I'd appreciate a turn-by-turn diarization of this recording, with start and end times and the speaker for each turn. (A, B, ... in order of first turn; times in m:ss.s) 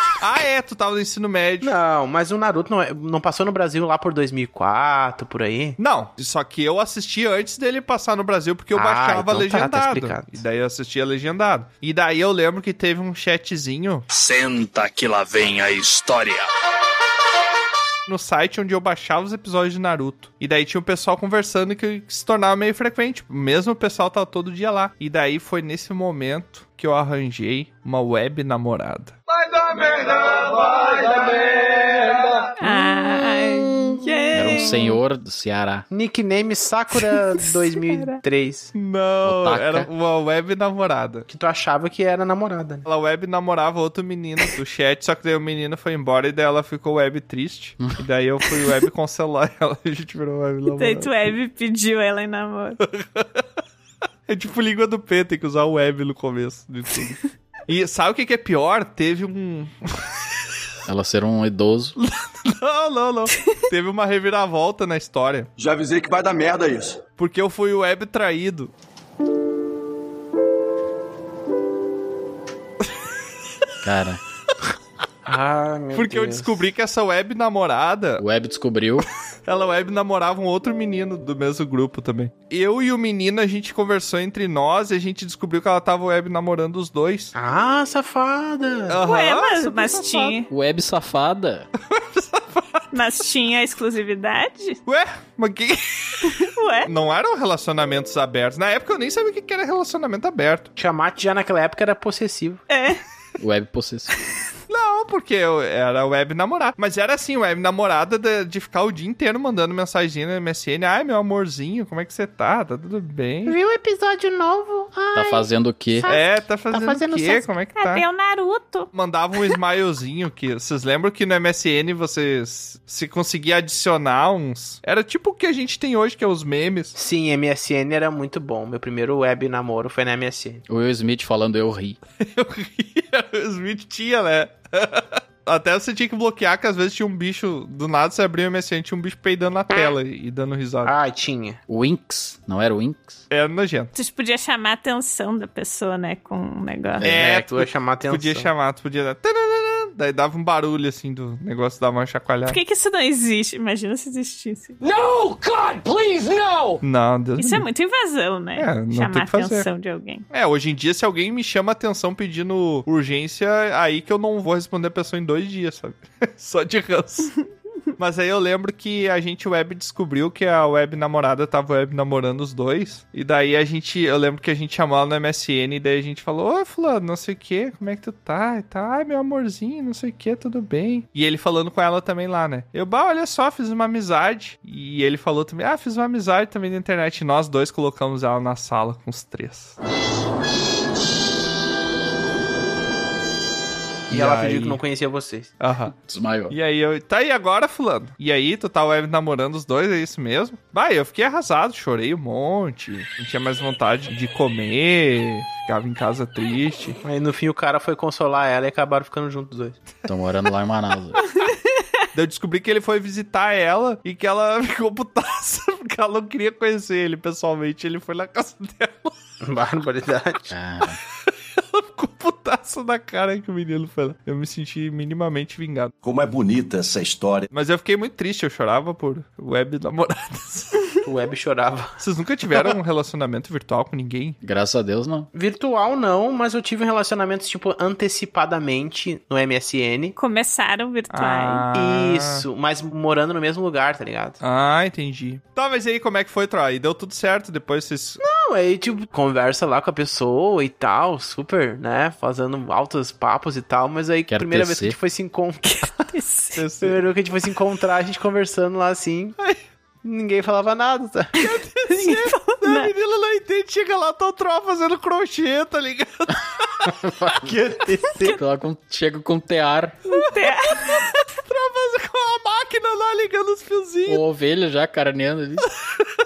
0:00.2-0:01.7 A
0:01.6-0:05.8 B
0:05.8-0:14.1 A
0:08.7-0:10.4 B
0:14.1-0:16.4 C
0:18.1-0:29.2 A
0:32.6-0:35.0 D
0:32.6-0:34.6 B
0:34.3-0:35.8 E
0:35.9-0:38.7 B
0:37.4-0:38.2 D
0:38.7-0:41.3 A
0:39.2-0:39.9 E
0:41.3-0:42.8 B
0:42.8-0:51.3 A
0:50.7-0:52.8 D
0:52.8-0:53.4 A
0:54.3-0:59.7 A
1:00.8-1:01.9 E
1:02.0-1:05.5 A
1:05.6-1:06.9 F
1:07.2-1:08.7 A
1:13.8-1:14.2 E
1:15.2-1:16.5 B
1:15.9-1:18.2 A
1:18.2-1:19.1 E
1:19.4-1:27.3 A
1:27.3-1:29.0 B
1:28.9-1:30.4 A
1:29.0-1:30.5 D
1:30.5-1:31.7 E
1:31.9-1:32.8 A
1:32.9-1:34.8 D
1:34.8-1:36.3 A
1:36.2-1:36.9 D
1:36.8-1:40.7 A
1:40.8-1:42.6 B
1:42.7-1:43.0 D
1:43.4-1:44.1 E
1:44.7-1:53.6 A
1:53.4-1:57.5 B
1:55.1-1:56.1 E
1:56.1-1:58.0 A
1:57.8-1:58.9 D
1:58.9-2:06.9 A
2:06.9-2:10.6 B
2:10.7-2:12.0 E
2:12.2-2:20.9 A
2:20.8-2:21.6 B
2:21.7-2:23.2 E
2:23.3-2:23.9 A
2:23.9-2:27.0 D
2:27.0-2:28.5 B
2:27.0-2:32.6 A
2:32.5-2:34.7 D
2:34.8-2:36.8 G
2:36.8-2:37.6 A
2:37.4-2:40.2 D
2:38.6-2:39.7 A
2:40.3-2:47.3 A
2:48.0-3:09.7 A
3:14.1-3:14.8 A
3:14.1-3:15.5 B
3:15.6-3:15.9 A
3:15.9-3:16.5 E
3:16.5-3:27.0 A
3:27.0-3:29.8 B
3:30.0-3:31.2 E
3:31.3-3:31.8 D
3:32.1-3:39.1 A
3:39.4-3:40.5 B
3:40.5-3:41.0 E
3:41.7-3:45.9 A
3:46.0-3:47.3 F
3:47.5-3:50.8 A
3:51.0-3:51.9 B
3:52.0-3:54.4 A
3:54.4-3:55.3 E
3:55.3-4:00.1 B
4:00.2-4:01.7 D
4:01.1-4:02.4 A
4:01.7-4:04.4 B
4:04.4-4:08.2 A
4:08.2-4:16.0 B
4:14.3-4:15.0 E
4:15.6-4:16.6 D
4:16.6-4:17.0 A
4:16.8-4:19.4 B
4:20.0-4:21.3 B
4:21.4-4:26.9 A
4:21.9-4:22.9 D
4:27.4-4:28.3 B
4:28.2-4:30.0 E
4:30.1-4:31.1 D
4:30.7-4:34.2 A
4:34.1-4:35.7 E